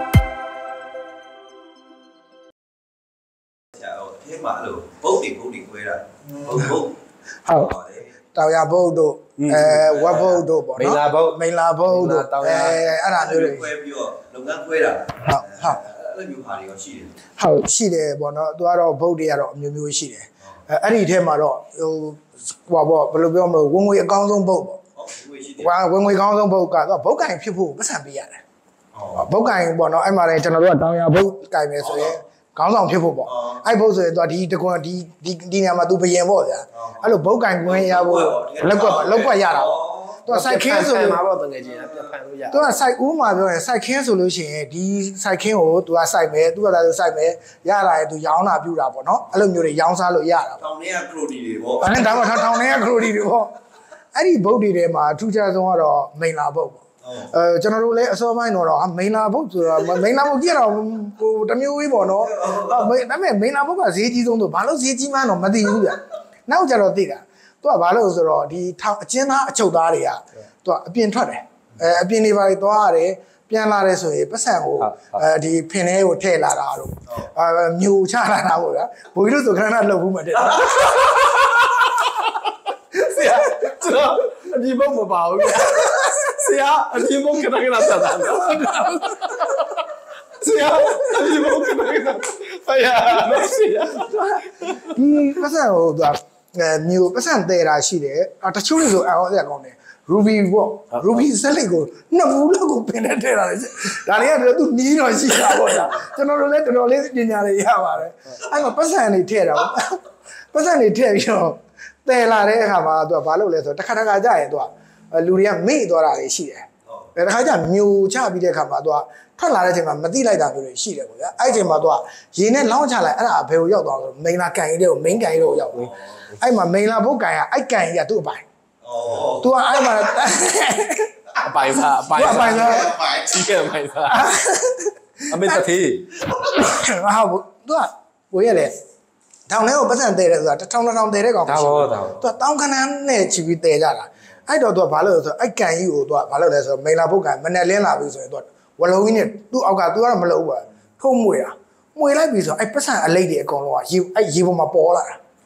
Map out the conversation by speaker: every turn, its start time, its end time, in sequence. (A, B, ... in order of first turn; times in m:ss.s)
0:03.7-0:06.9 A
0:07.4-0:07.7 B
0:07.5-0:08.1 A
0:08.3-0:13.7 B
0:09.4-0:10.1 C
0:09.9-0:10.4 A
0:10.8-0:12.8 C
0:12.6-0:17.1 A
0:15.2-0:15.8 B
0:17.4-0:24.8 B
0:25.0-0:25.7 A
0:25.6-0:28.4 B
0:28.9-0:29.2 A
0:29.1-0:41.2 B
0:31.8-0:32.2 A
0:33.2-0:33.6 A
0:36.7-0:37.0 A
0:37.6-0:40.2 A
0:40.3-0:42.8 C
0:42.5-0:50.7 B
0:50.6-0:52.4 A
0:51.8-0:53.5 B
0:54.1-1:21.2 B
1:02.1-1:02.9 A
1:14.8-1:15.2 C
1:21.0-1:29.6 C
1:25.8-1:26.1 B
1:28.0-1:29.7 B
1:30.4-1:34.9 C
1:30.9-1:31.6 B
1:33.1-2:08.4 B
1:41.0-1:41.2 C
2:05.7-2:06.0 A
2:08.8-2:09.5 A
2:09.3-2:11.1 B
2:11.4-2:14.3 C
2:12.1-2:13.0 B
2:12.2-2:13.5 A
2:14.1-2:15.6 B
2:15.3-2:16.1 C
2:16.3-2:18.7 B
2:19.5-2:35.2 B
2:21.4-2:22.2 C